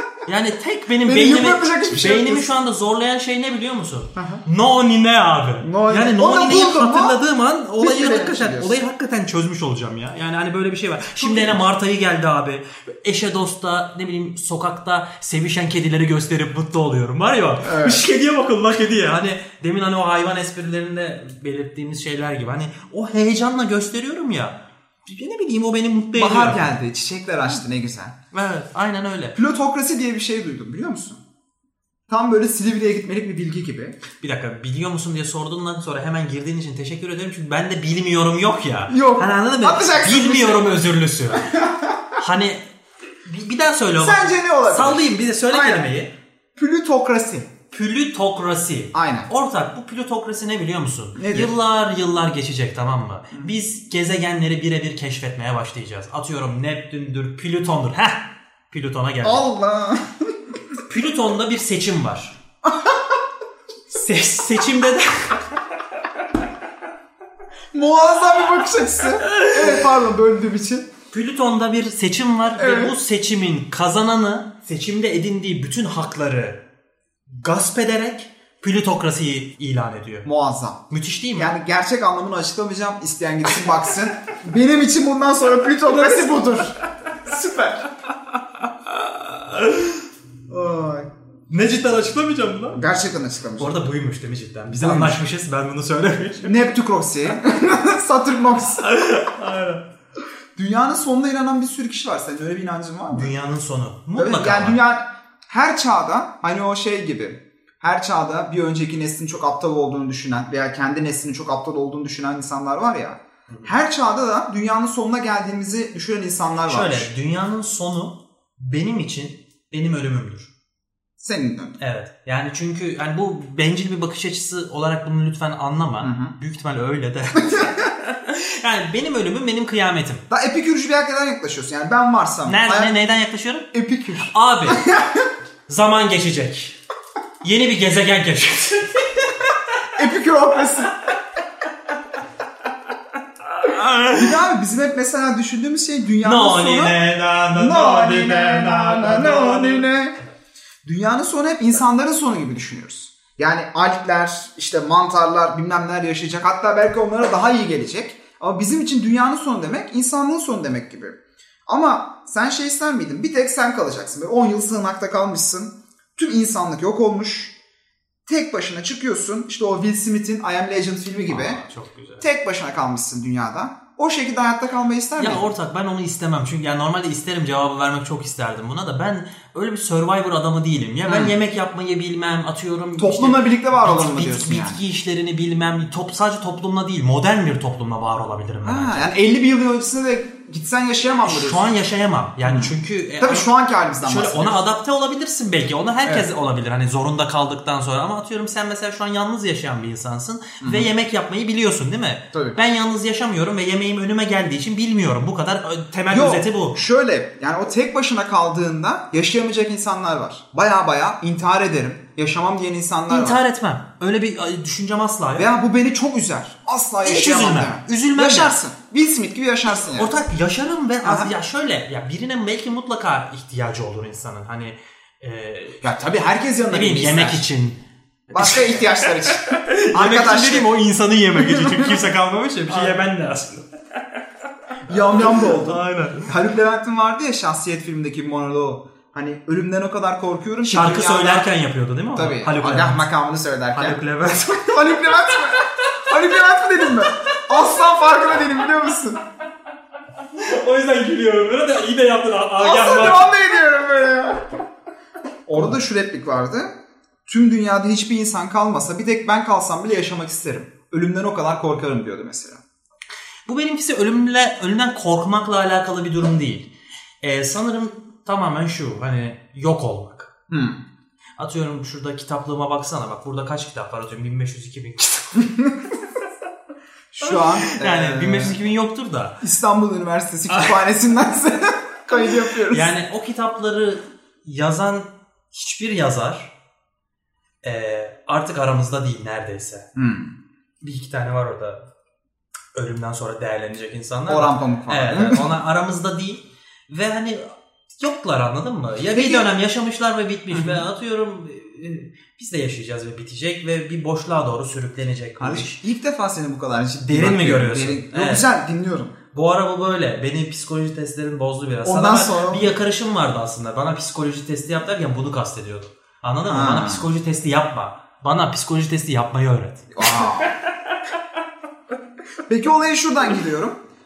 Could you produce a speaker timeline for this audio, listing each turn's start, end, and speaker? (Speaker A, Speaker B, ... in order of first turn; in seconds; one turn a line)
Speaker A: 0.2-26.7
Speaker B: 1.0-2.5
Speaker B: 4.2-4.4
Speaker B: 5.6-7.2
Speaker B: 7.8-8.8
Speaker B: 11.2-11.6
Speaker B: 17.6-18.0
Speaker B: 26.1-28.1
Speaker A: 28.3-29.4
Speaker B: 29.4-31.2
Speaker B: 32.1-34.0
Speaker A: 34.2-42.6
Speaker B: 38.9-40.7
Speaker B: 41.5-42.0
Speaker A: 43.2-46.1
Speaker B: 44.0-45.9
Speaker B: 46.5-47.5
Speaker A: 47.7-59.5
Speaker B: 48.9-49.3
Speaker B: 51.2-51.5
Speaker B: 59.2-60.3
Speaker A: 60.9-62.4
Speaker B: 62.6-63.0
Speaker A: 63.9-65.4
Speaker B: 67.7-70.9
Speaker A: 69.3-69.7
Speaker A: 71.1-76.6
Speaker B: 72.5-72.9
Speaker A: 77.3-80.3
Speaker B: 80.2-87.9
Speaker A: 80.9-81.5
Speaker A: 89.0-90.0
Speaker B: 90.5-91.1
Speaker A: 91.5-92.8
Speaker B: 92.7-93.8
Speaker A: 93.6-96.5
Speaker B: 94.7-95.2
Speaker B: 96.4-98.9
Speaker A: 98.8-99.8
Speaker B: 100.5-103.3
Speaker A: 103.1-104.8
Speaker B: 104.2-117.1
Speaker A: 116.7-120.5
Speaker B: 121.2-121.8
Speaker A: 121.8-130.2
Speaker B: 126.0-126.3
Speaker B: 127.4-127.7
Speaker B: 130.3-132.9
Speaker A: 132.4-133.7
Speaker B: 133.7-135.3
Speaker A: 134.2-134.8
Speaker A: 135.7-136.8
Speaker A: 137.4-139.5
Speaker B: 139.9-140.9
Speaker A: 143.6-144.3
Speaker B: 144.1-147.0
Speaker A: 146.2-149.9
Speaker B: 147.5-150.2
Speaker B: 150.8-167.6
Speaker B: 168.3-171.6
Speaker A: 171.3-172.2
Speaker B: 172.2-175.4
Speaker A: 175.2-189.1
Speaker B: 181.1-181.3
Speaker B: 183.0-184.8
Speaker B: 188.6-191.7
Speaker A: 191.2-193.5
Speaker B: 192.4-194.7
Speaker A: 194.0-206.8
Speaker B: 200.6-200.9
Speaker B: 202.3-202.6
Speaker B: 206.1-213.4
Speaker A: 213.1-215.5
Speaker B: 215.3-220.2
Speaker A: 217.0-218.6
Speaker A: 220.0-225.8
Speaker B: 221.0-221.3
Speaker B: 225.8-227.4
Speaker A: 226.7-233.7
Speaker B: 228.3-230.7
Speaker B: 231.4-232.0
Speaker B: 232.7-233.0
Speaker B: 234.9-241.5
Speaker A: 235.1-236.3
Speaker A: 240.6-243.1
Speaker B: 242.1-249.2
Speaker A: 243.7-244.9
Speaker A: 250.3-253.3
Speaker B: 252.6-254.4
Speaker B: 255.5-256.7
Speaker B: 257.3-262.6
Speaker A: 263.4-266.7
Speaker A: 267.2-270.3
Speaker B: 270.5-270.8
Speaker A: 271.4-275.7
Speaker B: 277.1-278.6
Speaker A: 277.2-279.4
Speaker B: 279.4-282.9
Speaker A: 280.5-280.8
Speaker A: 282.7-286.5
Speaker A: 287.6-289.9
Speaker B: 289.9-290.4
Speaker A: 290.8-291.8
Speaker A: 292.7-305.8
Speaker B: 294.3-295.5
Speaker B: 299.1-299.5
Speaker B: 300.5-300.8
Speaker B: 305.4-309.1
Speaker A: 307.1-308.4
Speaker A: 309.3-320.3
Speaker B: 311.8-312.7
Speaker B: 316.4-317.1
Speaker B: 319.9-320.5
Speaker B: 322.5-323.8